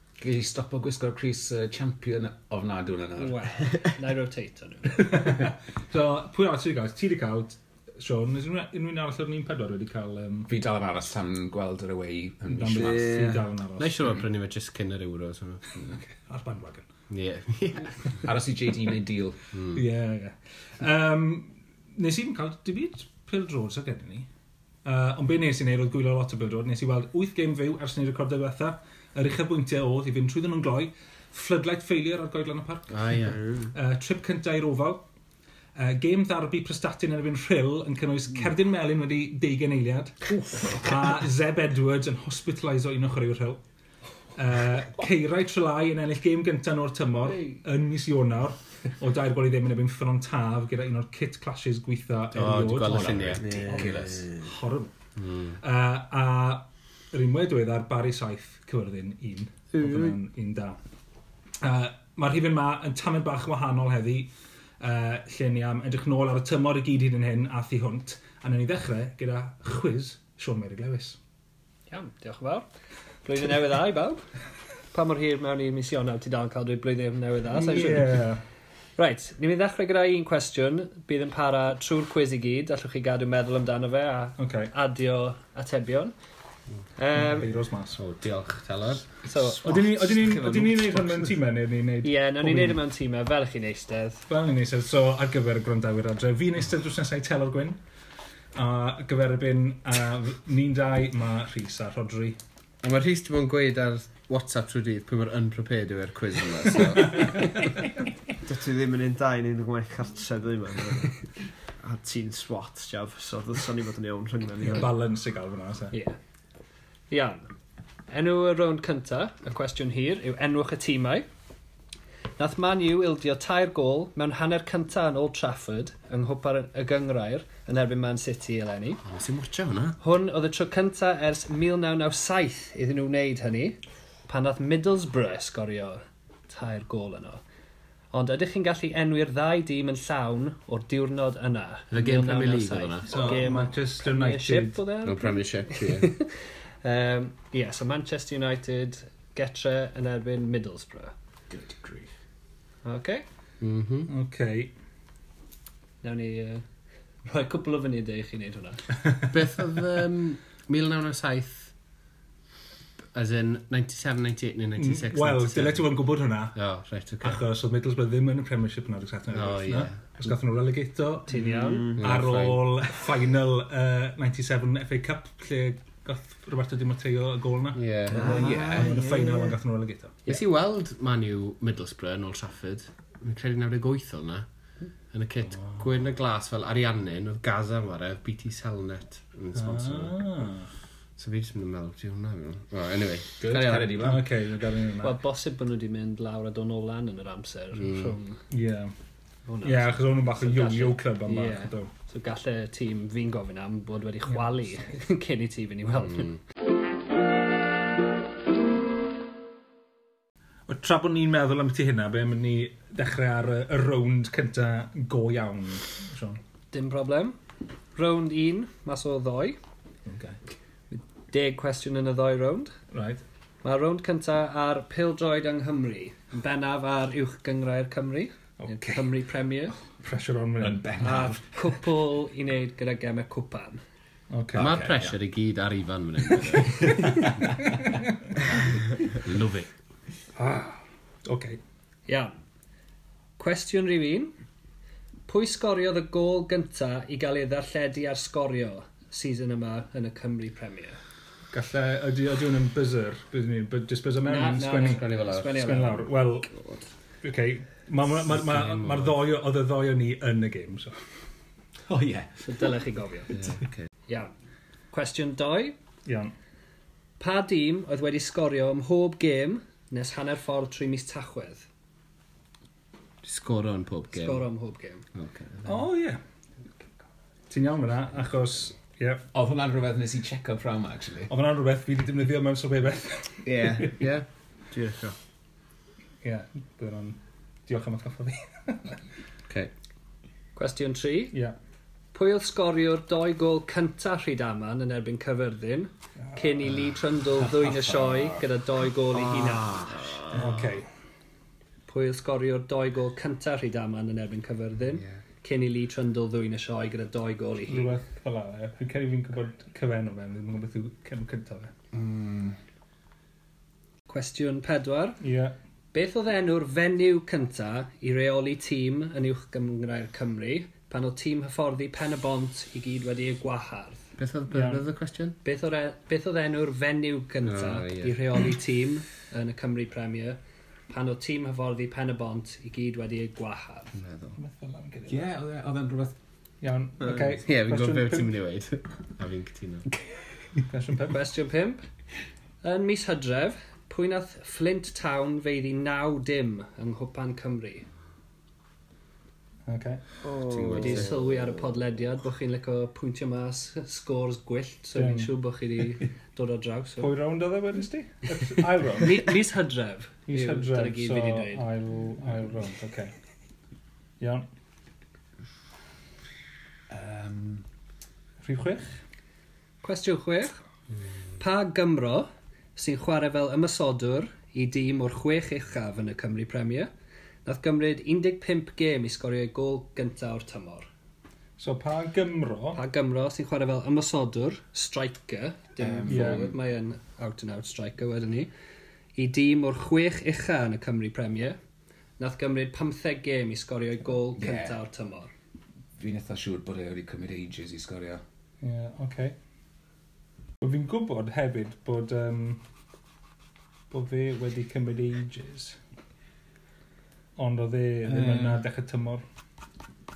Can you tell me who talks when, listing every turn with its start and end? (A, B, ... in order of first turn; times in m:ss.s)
0:00.2-0:03.5 A
0:03.2-0:05.4 B
0:05.0-0:10.5 C
0:10.5-0:13.2 A
0:12.5-0:14.1 C
0:12.7-0:13.4 D
0:13.8-0:15.6 E
0:15.8-0:16.9 C
0:17.1-0:18.1 E
0:18.2-0:19.4 A
0:19.7-0:24.3 C
0:24.8-0:35.0 C
0:32.9-0:33.4 E
0:35.8-0:43.6 C
0:44.4-0:53.4 C
0:52.3-0:54.0 E
0:52.9-0:54.3 A
0:53.4-0:54.4 D
0:54.4-1:00.8 C
0:55.2-0:55.5 E
1:01.6-1:11.2 C
1:11.9-1:12.6 B
1:13.2-1:14.3 B
1:14.9-1:18.3 B
1:17.5-1:18.4 C
1:19.0-1:26.1 B
1:24.4-1:24.7 C
1:27.0-1:27.5 B
1:27.1-1:28.0 C
1:27.9-1:29.1 E
1:29.2-1:29.9 B
1:29.6-1:31.3 D
1:29.6-1:32.8 C
1:32.0-1:34.3 B
1:34.3-1:37.8 C
1:38.5-1:42.4 C
1:42.8-1:47.7 E
1:48.4-1:51.2 D
1:51.8-1:54.9 D
1:54.6-1:56.0 C
1:57.1-1:57.4 B
1:58.1-2:01.2 B
2:02.4-2:09.0 B
2:09.0-2:10.0 E
2:10.0-2:17.4 B
2:18.1-2:26.3 B
2:21.9-2:23.1 E
2:23.1-2:24.8 C
2:23.2-2:23.6 D
2:25.0-2:26.2 E
2:26.8-2:31.1 B
2:31.5-2:32.1 A
2:32.8-2:33.2 B
2:33.6-2:34.1 E
2:34.1-2:34.7 C
2:36.0-2:36.6 B
2:37.2-2:38.9 B
2:39.3-2:41.7 E
2:43.1-2:45.8 E
2:44.8-2:46.6 C
2:46.5-2:47.4 E
2:47.2-3:00.4 C
2:49.3-2:50.0 E
2:51.3-2:51.9 B
2:51.4-2:52.8 E
2:51.6-2:52.0 D
2:57.7-2:58.4 E
2:58.1-2:59.5 D
2:58.1-2:59.0 A
3:00.2-3:04.4 E
3:05.1-3:10.4 E
3:09.5-3:10.7 C
3:11.2-3:14.2 E
3:13.4-3:14.2 A
3:13.5-3:15.2 C
3:15.0-3:18.4 B
3:17.7-3:18.2 E
3:18.5-3:18.9 C
3:19.4-3:26.4 B
3:19.6-3:21.9 C
3:24.3-3:24.7 C
3:30.7-3:36.4 C
3:36.7-3:37.4 B
3:37.9-3:39.6 B
3:40.0-3:40.4 C
3:40.9-3:42.7 B
3:42.9-3:43.2 C
3:43.6-3:49.8 B
3:48.6-3:49.0 C
3:50.0-3:50.9 C
3:50.6-3:51.8 A
3:51.0-3:53.8 B
3:54.3-3:54.8 C
3:54.5-3:55.2 A
3:54.6-3:57.2 E
3:58.4-3:59.7 E
4:00.4-4:01.6 C
4:03.4-4:04.3 B
4:05.3-4:11.0 B
4:11.5-4:16.5 C
4:14.2-4:16.8 B
4:14.8-4:15.6 E
4:17.2-4:20.9 C
4:18.3-4:19.1 E
4:21.9-4:22.4 A
4:22.4-4:23.6 B
4:23.4-4:23.9 E
4:24.9-4:25.8 B
4:26.0-4:26.3 C
4:27.2-4:31.7 B
4:33.2-4:34.5 E
4:34.1-4:35.0 B
4:35.1-4:35.9 E
4:35.6-4:36.2 C
4:37.5-4:39.2 C
4:39.3-4:41.3 A
4:41.3-4:43.7 C
4:43.4-4:44.0 D
4:44.0-4:44.2 E
4:44.7-4:45.1 D
4:46.2-4:49.0 C
4:50.6-4:51.4 B
4:52.1-4:59.8 B
4:57.5-4:58.4 A
4:59.6-5:00.0 A
5:00.3-5:00.9 C
5:01.9-5:07.9 B
5:07.7-5:11.7 C
5:11.9-5:12.6 A
5:14.1-5:15.2 B
5:15.2-5:15.5 C
5:15.9-5:24.0 B
5:24.2-5:25.4 E
5:24.5-5:24.8 C
5:25.4-5:34.0 B
5:27.4-5:28.2 E
5:34.0-5:34.4 E
5:34.4-5:35.3 C
5:35.1-5:36.1 A
5:36.6-5:38.3 C
5:37.4-5:39.8 E
5:40.6-5:41.2 C
5:41.1-5:41.8 B
5:42.6-5:47.9 B
5:49.6-5:50.0 C
5:50.2-5:51.4 D
5:50.5-5:51.2 E
5:50.7-5:57.1 B
5:54.9-5:55.3 C
5:57.0-5:59.3 C
5:59.0-6:01.6 B
6:00.3-6:03.1 C
6:04.2-6:04.5 C
6:06.9-6:07.6 A
6:08.4-6:09.0 C
6:09.8-6:10.6 B
6:11.4-6:16.9 B
6:17.4-6:20.9 B
6:21.6-6:22.8 C
6:22.7-6:28.5 B
6:25.8-6:26.6 A
6:26.0-6:26.5 C
6:29.2-6:31.6 B
6:32.2-6:35.3 B
6:34.4-6:34.8 A
6:36.0-6:38.2 A
6:38.6-6:39.4 C
6:40.6-6:42.6 C
6:43.9-6:45.8 C
6:47.4-6:49.2 C